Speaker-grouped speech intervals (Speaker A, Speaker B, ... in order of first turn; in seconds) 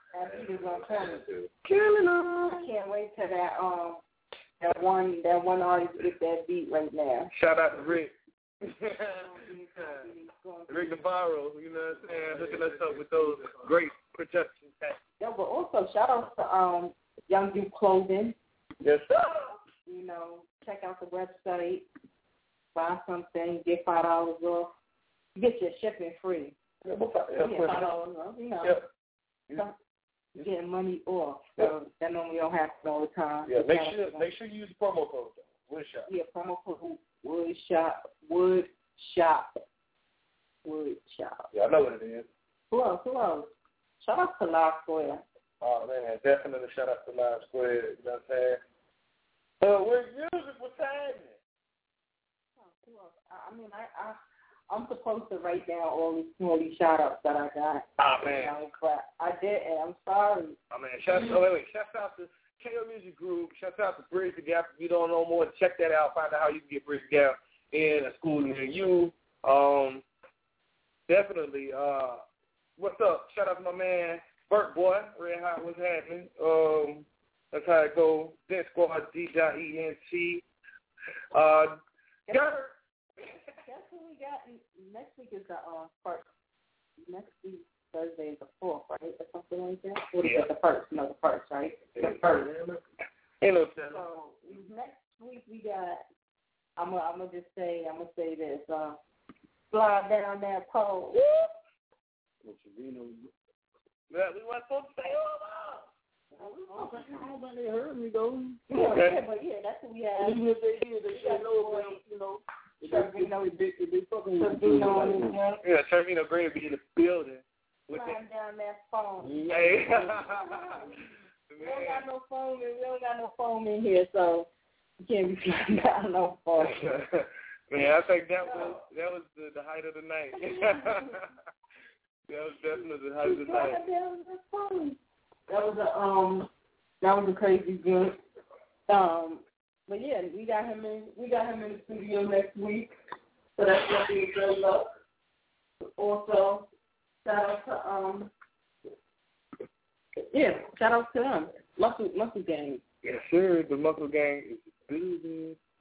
Speaker A: 0.1-1.2, 2.5-4.0, 4.6-7.3, 9.2-11.0, 15.2-18.4, 19.9-21.9, 22.8-24.7, 25.4-26.6, 27.4-28.8, 30.4-34.3, 36.1-39.6, 40.6-41.5, 42.7-45.2, 52.6-54.2, 54.7-60.6, 82.3-82.7, 83.6-86.3, 87.0-92.5, 93.9-96.0, 96.8-99.0, 99.7-101.2, 106.7-107.1, 108.7-112.0, 112.8-113.6, 114.4-115.6, 117.9-120.5, 121.6-124.5, 125.0-126.9, 128.4-128.8, 130.4-131.1, 133.2-136.5, 137.0-138.2, 138.9-142.9, 143.6-144.9, 146.0-146.7, 147.2-148.3, 150.3-152.8
Speaker B: 1.0-1.5, 7.3-8.1, 8.7-9.3, 10.7-15.0, 18.8-19.6, 26.9-27.9, 33.5-36.1, 41.5-42.3, 45.6-48.6, 49.6-51.4, 58.0-58.6, 60.7-70.0, 71.1-72.2, 72.8-80.4, 81.3-81.8, 82.3-82.7, 90.2-90.5, 92.0-92.8, 93.4-94.1, 104.1-105.9, 108.9-109.2, 115.6-118.2, 119.5-120.7, 121.5-122.0, 126.7-131.2, 132.3-133.8, 153.0-155.6
Speaker C: 1.7-2.5, 12.5-13.0, 102.4-103.3, 106.4-108.7, 110.2-115.4